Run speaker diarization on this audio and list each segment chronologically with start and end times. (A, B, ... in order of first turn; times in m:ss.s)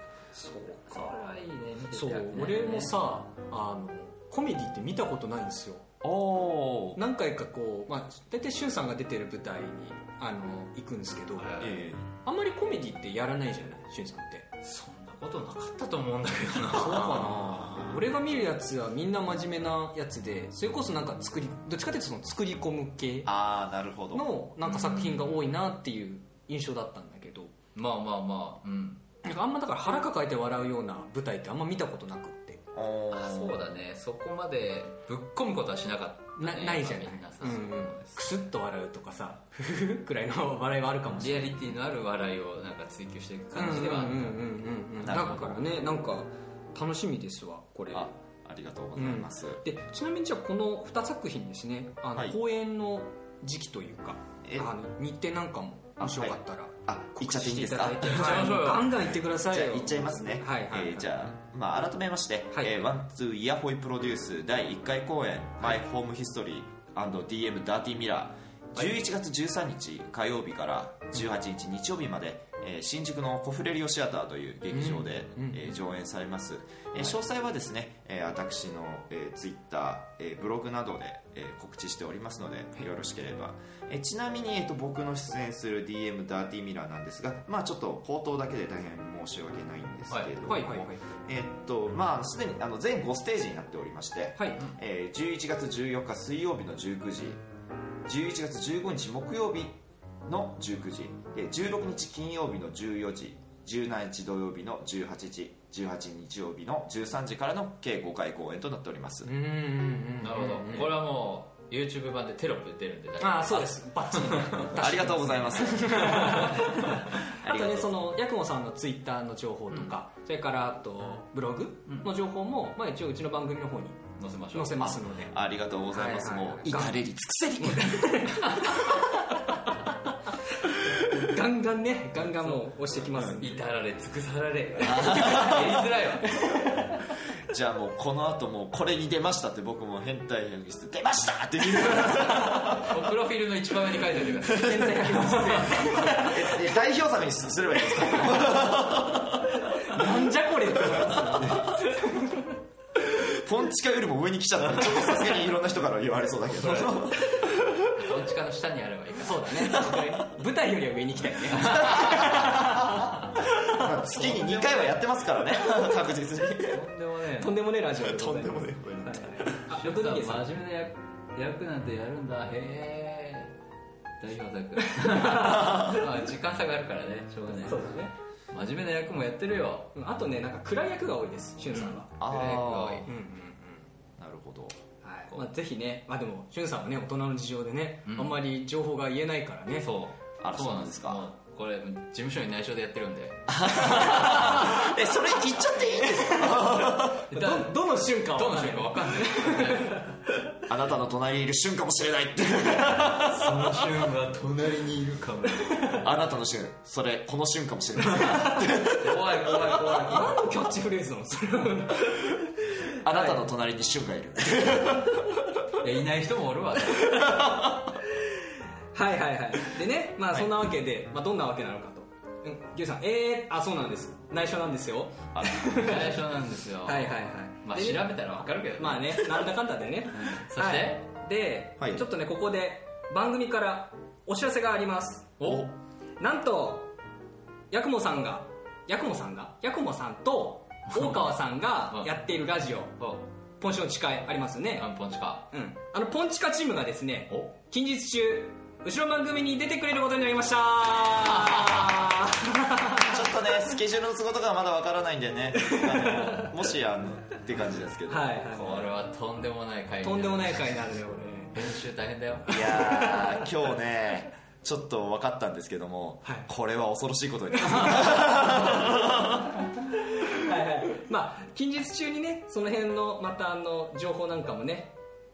0:00.3-0:01.2 A
0:00.9-0:02.9 B
0:01.9-0:05.8 A
0:06.0-0:07.0 C
0:07.0-0:11.5 A
0:11.4-0:11.9 B
0:11.6-0:12.1 C
0:12.2-0:14.5 A
0:14.6-0:17.9 B
0:16.7-0:23.3 A
0:23.2-0:24.3 C
0:24.1-0:27.5 A
0:24.6-0:25.5 B
0:27.7-0:29.0 B
0:29.2-0:32.6 A
0:32.7-0:33.6 C
0:33.1-0:38.1 B
0:36.4-0:41.6 A
0:41.2-0:44.5 B
0:43.5-0:48.1 A
0:45.0-0:45.6 C
0:47.9-0:49.6 C
0:49.0-1:01.1 A
0:54.4-0:54.7 C
0:56.0-0:58.5 C
0:58.1-0:59.0 B
0:59.4-1:37.4 C
1:02.5-1:02.8 A
1:14.7-1:15.7 A
1:30.4-1:31.0 A
1:34.4-1:34.6 A
1:38.0-1:49.3 C
1:49.2-1:50.9 A
1:50.2-1:54.8 B
1:53.2-2:04.0 A
1:54.7-1:56.6 C
1:56.0-1:56.7 B
1:57.3-1:57.9 C
2:04.2-2:04.9 B
2:04.5-2:05.3 A
2:04.8-2:08.2 C
2:05.9-2:07.0 A
2:07.6-2:09.7 A
2:08.4-2:08.9 B
2:10.6-2:13.7 A
2:12.2-2:16.4 B
2:14.8-2:15.8 C
2:14.9-2:17.0 A
2:17.5-2:23.0 C
2:22.6-2:26.1 B
2:24.4-2:26.6 A
2:26.0-2:30.0 C
2:27.8-2:28.7 A
2:29.6-2:32.6 A
2:30.8-2:31.8 C
2:33.0-2:37.5 C
2:37.9-2:39.9 B
2:39.2-2:44.6 A
2:41.5-2:42.5 B
2:41.6-2:43.1 C
2:43.6-2:46.8 C
2:44.1-2:44.9 B
2:45.7-2:46.0 A
2:46.6-2:47.6 B
2:47.4-2:50.5 A
2:48.0-2:49.6 C
2:49.7-2:53.5 B
2:54.2-2:57.9 B
2:54.8-2:56.1 A
2:57.6-2:58.1 A
2:58.5-2:59.9 B
2:59.9-3:02.1 A
3:01.7-3:03.1 B
3:02.2-3:03.1 C
3:03.1-3:03.9 A
3:04.2-3:04.8 C
3:05.0-3:09.9 A
3:08.0-3:08.4 B
3:09.7-3:14.8 B
3:10.4-3:11.2 C
3:13.5-3:17.2 C
3:16.0-3:20.4 A
3:17.3-3:20.1 B
3:20.7-3:24.0 C
3:23.1-3:26.0 B
3:25.6-3:26.0 A
3:25.9-3:29.9 C
3:28.2-3:28.6 A
3:28.4-3:30.4 B
3:30.0-3:33.4 A
3:33.0-3:35.5 C
3:35.8-3:37.3 B
3:36.9-3:37.5 A
3:37.4-3:37.7 C
3:38.9-3:46.2 A
3:45.3-3:45.9 C
3:45.7-3:49.4 B
3:46.8-3:55.3 A
3:50.1-3:51.0 B
3:55.4-3:55.7 B
3:55.4-3:55.7 C
3:56.2-3:56.9 A
3:57.7-4:03.0 A
4:00.9-4:01.3 B
4:03.6-4:04.9 A
4:04.8-4:05.5 B
4:05.5-4:13.3 A
4:11.2-4:12.0 B
4:13.0-4:18.3 C
4:15.6-4:16.7 A
4:18.1-4:18.9 A
4:18.5-4:20.8 B
4:20.0-4:21.8 A
4:21.5-4:22.6 B
4:22.5-4:23.6 A
4:22.5-4:29.5 C
4:27.6-4:29.2 A
4:29.8-4:34.9 A